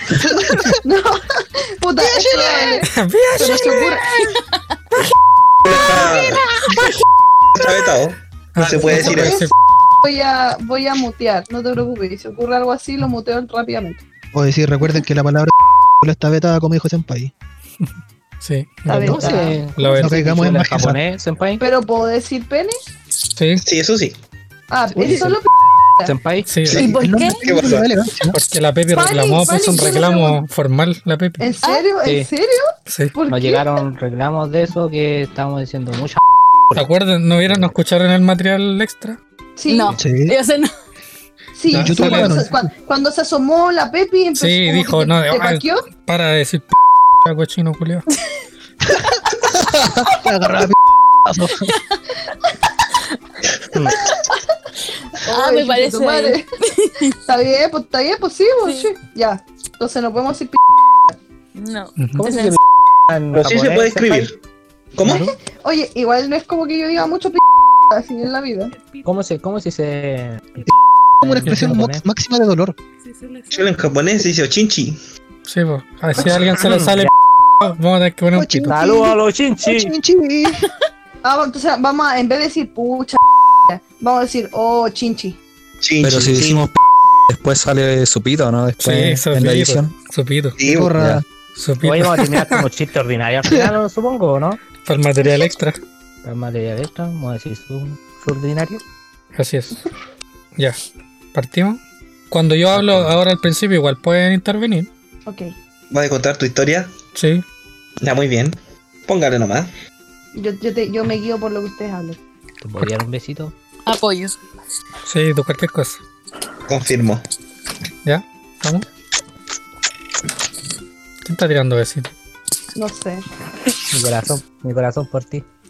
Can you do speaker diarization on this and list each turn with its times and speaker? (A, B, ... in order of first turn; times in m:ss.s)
0:00.3-0:04.0 A
0:02.0-0:02.8 B
0:02.9-0:03.9 C
0:03.7-0:04.4 D
0:05.6-0:06.4 E
0:07.6-0:09.4 E
0:08.5-0:09.5 C
0:08.6-0:09.4 B
0:10.0-0:14.0 A
0:14.3-0:17.3 B
0:18.4-0:20.2 C
0:18.9-0:19.6 A
0:18.9-0:19.3 B
0:18.9-0:21.6 F
0:20.0-0:21.0 B
0:21.6-0:22.8 A
0:23.4-0:23.6 C
0:23.6-0:24.2 E
0:24.7-0:26.1 A
0:25.0-0:25.4 F
0:26.0-0:26.5 F
0:26.5-0:26.9 C
0:26.7-0:27.9 E
0:26.7-0:28.4 B
0:26.8-0:27.4 A
0:26.9-0:27.4 D
0:28.3-0:31.5 C
0:28.9-0:30.4 A
0:31.4-0:33.8 A
0:32.0-0:32.3 F
0:32.9-0:33.1 C
0:33.3-0:36.2 F
0:36.7-0:39.2 C
0:39.6-0:40.0 A
0:39.7-0:40.7 D
0:39.9-0:40.4 B
0:41.5-0:45.9 A
0:41.7-0:42.5 C
0:41.7-0:42.5 B
0:44.4-0:48.0 C
0:49.5-0:51.7 B
0:53.7-0:54.0 F
0:54.0-0:54.2 A
0:55.2-0:56.4 A
0:55.3-0:57.1 D
0:57.2-1:01.2 A
0:58.6-0:58.9 D
1:01.6-1:02.6 D
1:02.0-1:02.2 C
1:02.2-1:04.2 F
1:03.3-1:04.4 E
1:05.0-1:05.3 E
1:05.0-1:05.3 F
1:05.6-1:08.7 A
1:09.0-1:10.6 F
1:11.2-1:12.0 F
1:11.2-1:12.8 B
1:13.5-1:15.0 E
1:15.4-1:18.7 C
1:16.2-1:17.0 F
1:18.4-1:19.1 B
1:18.7-1:19.9 F
1:19.6-1:20.6 B
1:21.2-1:25.4 A
1:25.8-1:26.7 E
1:26.0-1:26.8 G
1:27.3-1:29.9 G
1:28.8-1:30.6 C
1:30.6-1:30.9 E
1:30.6-1:31.2 B
1:30.9-1:31.2 G
1:31.6-1:32.6 C
1:31.8-1:34.6 F
1:34.8-1:35.8 C
1:36.2-1:38.8 F
1:39.4-1:39.8 C
1:41.3-1:41.8 C
1:42.3-1:44.9 C
1:42.7-1:43.2 F
1:45.2-1:45.5 A
1:45.9-1:46.9 E
1:47.2-1:47.4 C
1:48.0-1:49.7 E
1:50.4-1:52.2 A
1:52.6-1:53.5 F
1:53.9-1:54.4 D
1:55.1-1:56.0 C
1:56.7-1:57.2 E
1:58.0-1:58.9 C
2:01.2-2:02.1 C
2:02.7-2:03.2 A
2:03.9-2:05.4 F